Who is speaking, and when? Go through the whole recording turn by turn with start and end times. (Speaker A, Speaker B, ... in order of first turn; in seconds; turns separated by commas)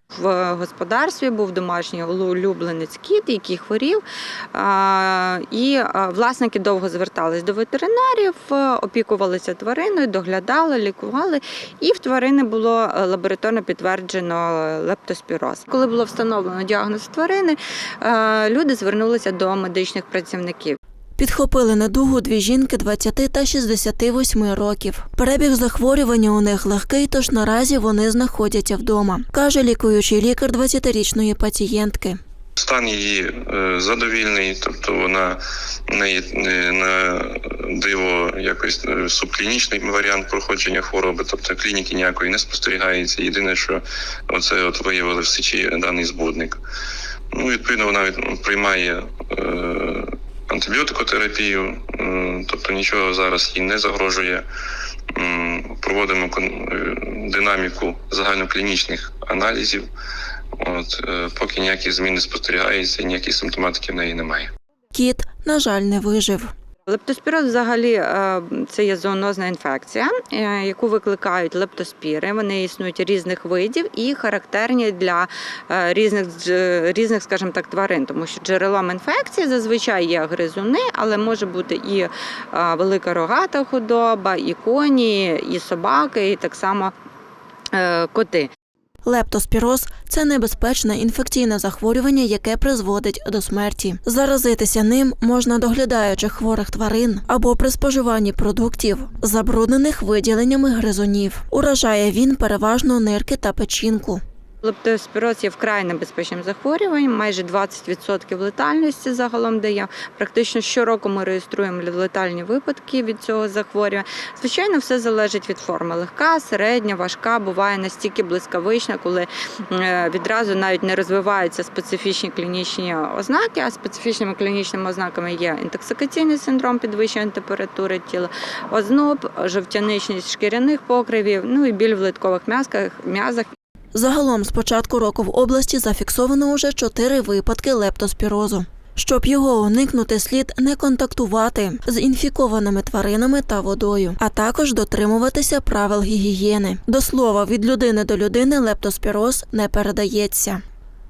Speaker A: 0.1-4.0, Speaker A: 4.5-20.8, Speaker B: 21.2-32.2, Speaker C: 32.6-46.6, Speaker C: 47.3-54.5, Speaker C: 55.1-59.9, Speaker C: 60.6-64.5, Speaker B: 64.9-66.5, Speaker A: 66.9-86.9, Speaker A: 87.7-88.5, Speaker B: 89.0-104.2, Speaker A: 104.6-133.5, Speaker B: 133.9-150.6